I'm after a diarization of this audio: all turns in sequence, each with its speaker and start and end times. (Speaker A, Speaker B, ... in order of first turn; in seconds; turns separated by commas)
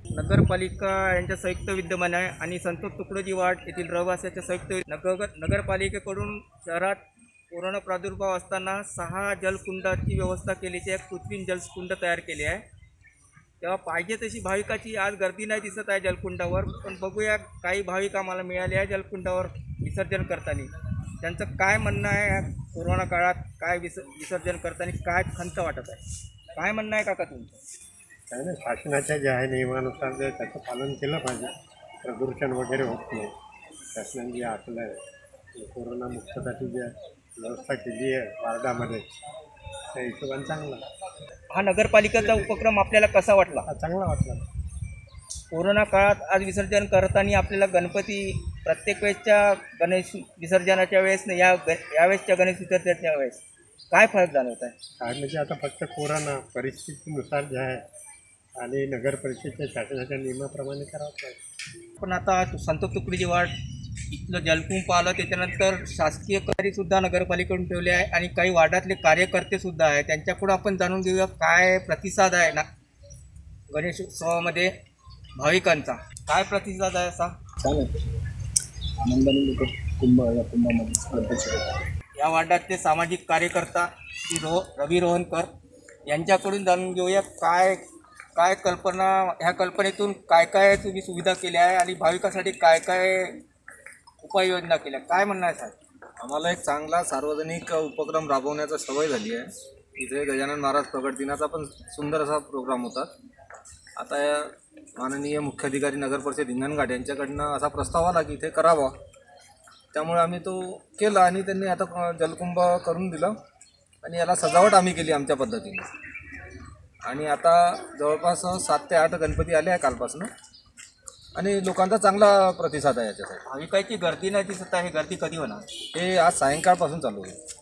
Speaker A: 0.1-12.6, Speaker A: 13.6-26.0, Speaker A: 26.6-27.6, Speaker B: 28.3-31.5, Speaker B: 32.0-33.3, Speaker B: 33.9-35.0, Speaker B: 35.6-39.0, Speaker B: 39.9-40.8, Speaker A: 41.5-43.7, Speaker B: 43.7-44.5, Speaker A: 45.5-54.8, Speaker B: 55.0-57.8, Speaker B: 58.6-61.4, Speaker A: 62.0-63.5, Speaker A: 64.1-72.7, Speaker A: 73.7-74.7, Speaker A: 75.4-77.4, Speaker C: 77.6-78.2, Speaker C: 79.0-81.8, Speaker A: 82.2-85.5, Speaker A: 86.1-87.8, Speaker A: 88.4-93.4, Speaker A: 94.2-95.8, Speaker D: 96.2-103.1, Speaker D: 104.0-108.9, Speaker D: 109.9-113.3, Speaker D: 114.0-115.9, Speaker D: 117.0-120.3, Speaker D: 121.3-123.4, Speaker A: 123.5-125.7, Speaker D: 125.9-127.4